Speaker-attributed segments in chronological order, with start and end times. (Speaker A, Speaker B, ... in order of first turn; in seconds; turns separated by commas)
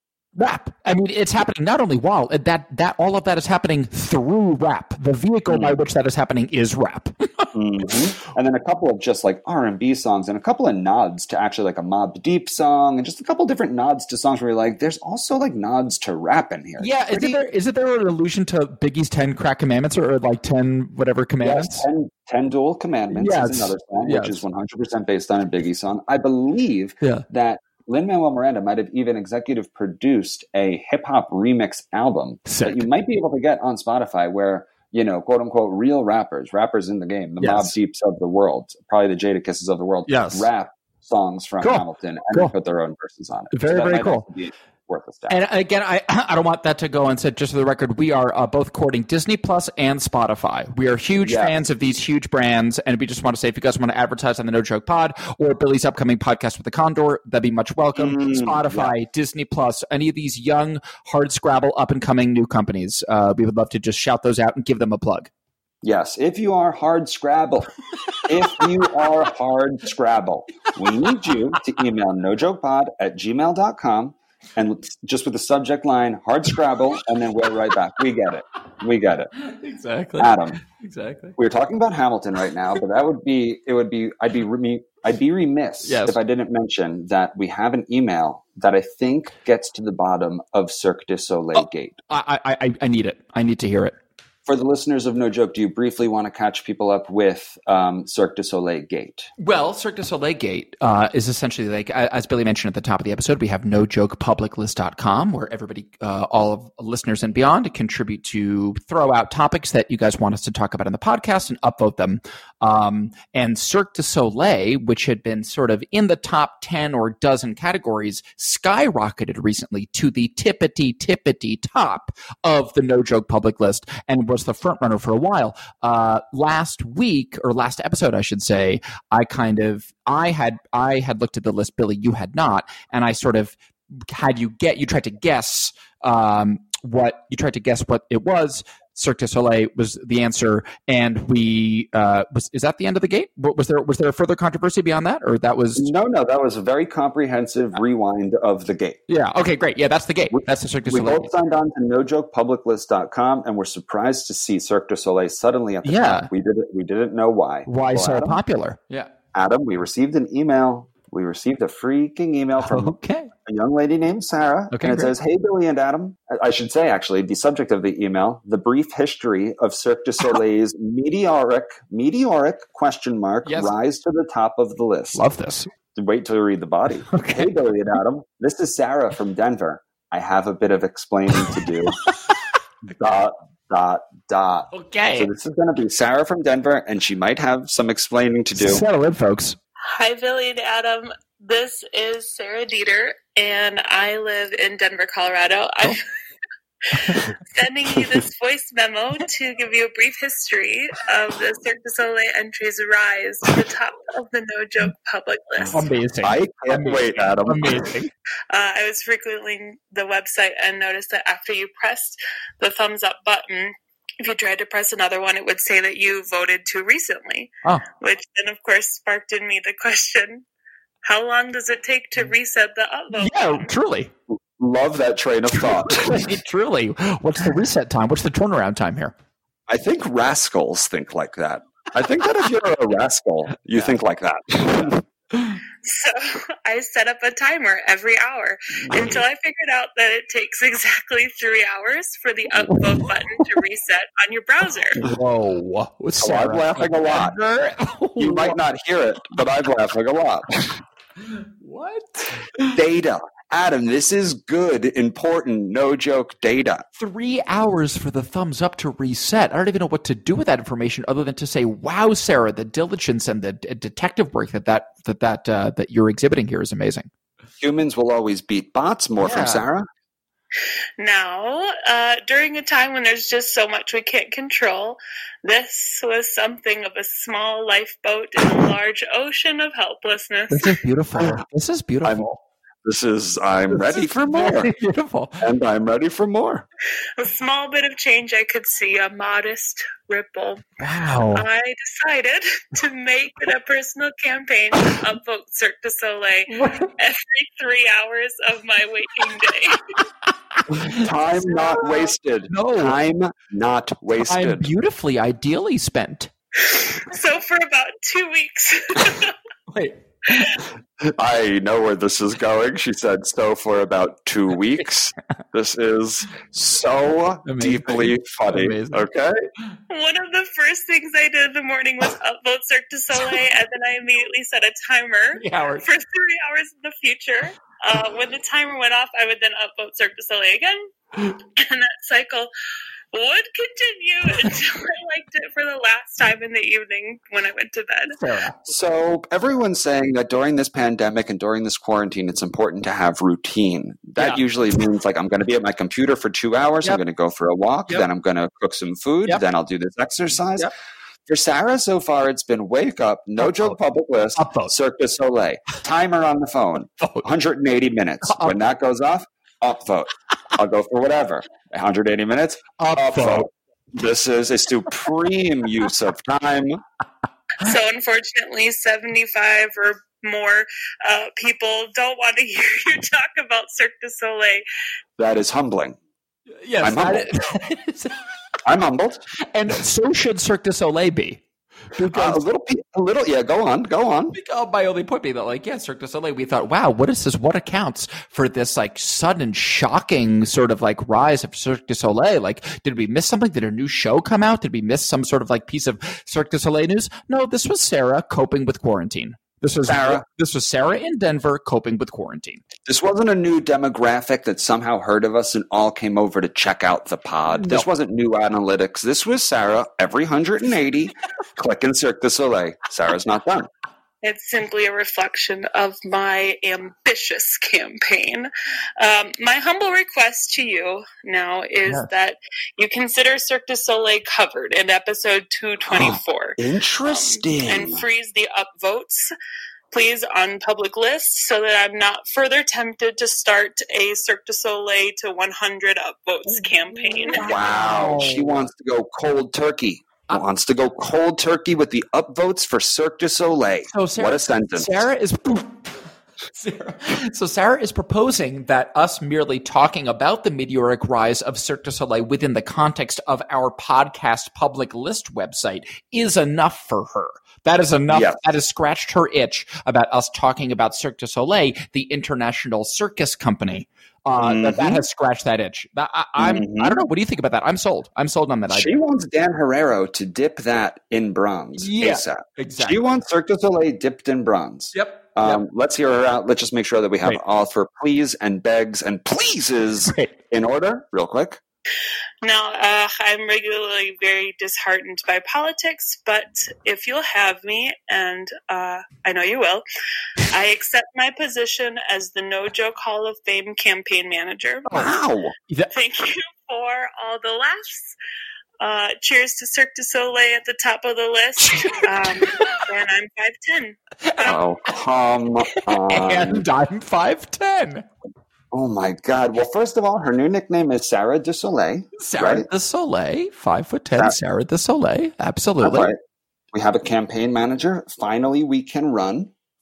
Speaker A: 0.3-7.9, Speaker B: 5.5-5.8, Speaker B: 7.5-17.4, Speaker A: 16.8-21.9, Speaker B: 21.4-45.4, Speaker A: 23.1-24.4, Speaker A: 32.5-32.9, Speaker A: 37.4-37.7, Speaker A: 40.1-40.5, Speaker A: 41.6-42.5, Speaker A: 43.5-44.2, Speaker A: 45.3-65.3, Speaker B: 51.2-51.6, Speaker B: 57.9-58.9, Speaker B: 65.8-79.3, Speaker A: 79.4-81.3, Speaker B: 80.2-80.6, Speaker B: 81.4-92.0, Speaker A: 85.8-86.2, Speaker A: 91.5-94.0, Speaker B: 94.5-99.3, Speaker A: 99.4-133.6, Speaker A: 134.1-145.9, Speaker B: 145.8-149.0, Speaker A: 149.1-151.3, Speaker B: 150.3-158.4, Speaker A: 155.8-156.3, Speaker A: 157.7-159.1, Speaker B: 159.3-175.2, Speaker A: 162.6-163.3, Speaker A: 164.7-165.1, Speaker A: 173.4-173.7, Speaker A: 175.1-175.7, Speaker B: 175.9-182.0, Speaker A: 177.1-177.5, Speaker B: 182.9-188.8, Speaker A: 184.7-185.3, Speaker A: 188.5-189.6, Speaker C: 189.9-196.0, Speaker A: 197.0-197.3, Speaker C: 197.1-205.9, Speaker A: 205.7-208.1, Speaker B: 206.2-207.9, Speaker C: 208.5-220.4, Speaker C: 221.0-223.7, Speaker A: 223.1-224.1, Speaker B: 224.3-226.3, Speaker A: 225.5-229.1, Speaker B: 229.7-235.0, Speaker C: 235.8-245.0, Speaker B: 238.8-239.2, Speaker A: 242.6-243.5, Speaker A: 244.9-248.6, Speaker B: 246.2-247.4, Speaker B: 248.2-250.8, Speaker A: 251.6-252.7, Speaker B: 252.7-256.8, Speaker A: 257.0-267.1, Speaker B: 267.6-269.9, Speaker A: 269.2-269.6, Speaker C: 271.0-280.8, Speaker A: 280.5-282.4, Speaker B: 281.2-281.4, Speaker B: 282.0-282.3, Speaker B: 282.8-284.7, Speaker A: 283.7-285.4, Speaker B: 285.4-286.6, Speaker C: 287.2-290.7, Speaker A: 290.8-291.4, Speaker C: 291.3-299.8, Speaker A: 296.5-296.9, Speaker A: 300.6-301.1, Speaker B: 300.7-304.7, Speaker A: 302.5-303.0, Speaker A: 304.1-306.3, Speaker C: 306.6-309.3, Speaker A: 309.7-310.5, Speaker B: 311.0-319.3, Speaker A: 317.4-319.0, Speaker C: 319.9-330.9, Speaker A: 325.4-325.9, Speaker C: 331.6-332.5, Speaker C: 333.1-338.1, Speaker A: 338.1-338.6, Speaker B: 338.6-350.7, Speaker A: 344.2-344.4, Speaker B: 351.3-366.8, Speaker A: 353.4-353.8, Speaker A: 354.4-354.7, Speaker A: 357.0-357.2, Speaker A: 358.2-358.6, Speaker A: 362.8-363.5, Speaker C: 367.6-374.6, Speaker B: 375.2-376.0, Speaker A: 376.6-378.1, Speaker B: 376.8-377.3, Speaker B: 378.6-379.3, Speaker A: 379.5-381.4, Speaker A: 381.9-382.4, Speaker B: 382.0-384.3, Speaker A: 384.3-402.6, Speaker B: 399.9-400.2, Speaker B: 402.9-413.7, Speaker A: 407.5-407.9, Speaker C: 414.2-429.2, Speaker B: 425.9-428.1, Speaker C: 429.9-437.5, Speaker A: 436.5-438.7, Speaker B: 437.4-445.0, Speaker A: 443.9-445.8, Speaker A: 446.6-468.9, Speaker B: 458.1-458.4, Speaker B: 464.4-465.0, Speaker B: 466.4-467.1, Speaker B: 468.7-481.6, Speaker A: 471.8-473.0, Speaker A: 474.9-475.6, Speaker A: 480.1-480.3, Speaker C: 482.4-489.8, Speaker C: 490.5-494.9, Speaker B: 494.9-495.5, Speaker C: 495.9-498.1, Speaker C: 498.8-504.6, Speaker A: 501.6-502.8, Speaker B: 504.4-506.7, Speaker A: 506.0-508.0, Speaker B: 508.7-512.7, Speaker A: 512.2-516.1, Speaker B: 515.8-516.2, Speaker B: 516.7-519.5